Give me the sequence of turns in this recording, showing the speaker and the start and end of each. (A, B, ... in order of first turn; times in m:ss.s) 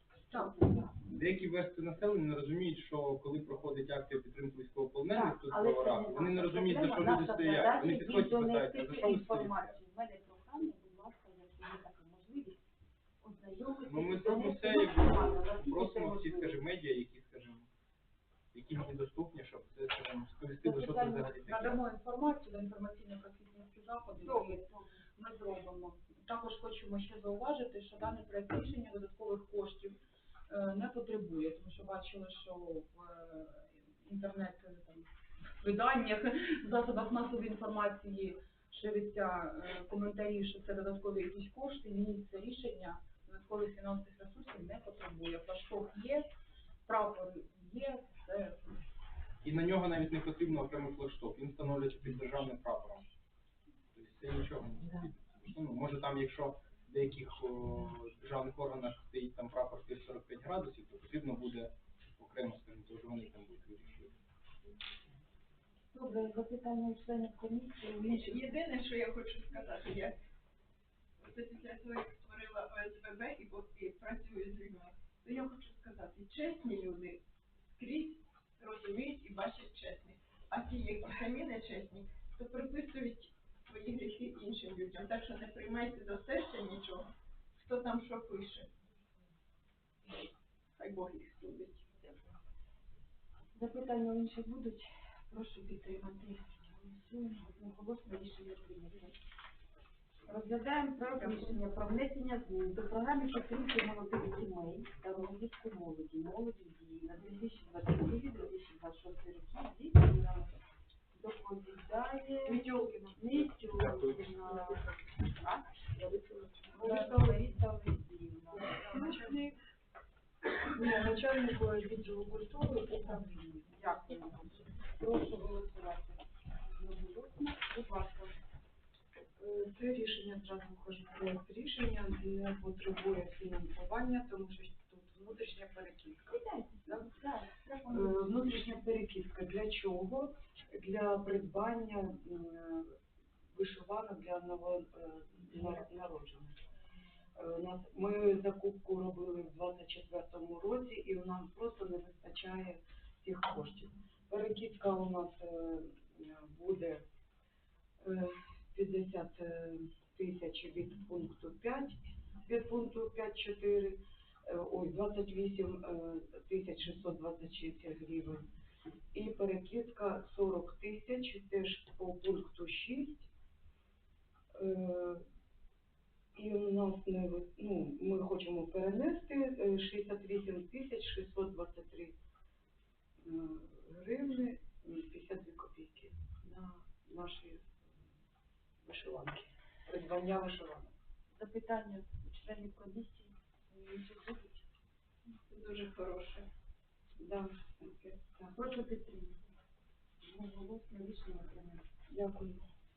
0:00.3-0:01.0 A
0:01.1-0:09.8 B
0:05.1-0:12.6 A
0:13.2-0:16.6 A
0:13.9-0:17.7 B
0:18.5-0:21.8 B
0:20.6-0:24.6 C
0:24.2-0:25.0 A
0:25.2-0:35.1 C
0:35.6-0:46.3 C
0:46.9-0:48.8 C
0:49.4-0:53.1 B
0:53.9-1:04.2 B
1:05.9-1:08.5 A
1:08.0-1:10.2 D
1:11.2-1:17.2 D
1:17.8-1:28.7 D
1:30.8-1:32.2 D
1:33.6-1:39.2 A
1:40.3-1:50.5 A
1:51.1-1:55.8 A
1:52.4-1:53.2 E
1:56.0-1:56.6 C
1:56.7-1:59.2 A
1:56.7-1:57.4 E
1:58.6-1:59.6 E
1:58.8-1:59.2 C
2:00.7-2:04.4 E
2:03.7-2:06.2 A
2:06.8-2:08.3 A
2:09.4-2:17.1 E
2:16.3-2:18.2 A
2:17.9-2:23.0 E
2:23.5-2:26.6 E
2:27.4-2:37.0 E
2:38.0-2:48.5 E
2:49.1-2:53.3 E
2:54.5-2:55.2 E
2:56.4-3:02.2 E
3:03.2-3:08.0 E
3:08.8-3:10.9 E
3:11.4-3:14.6 A
3:15.3-3:16.5 D
3:17.2-3:18.6 E
3:18.5-3:19.4 A
3:20.2-3:21.8 A
3:22.1-3:22.7 E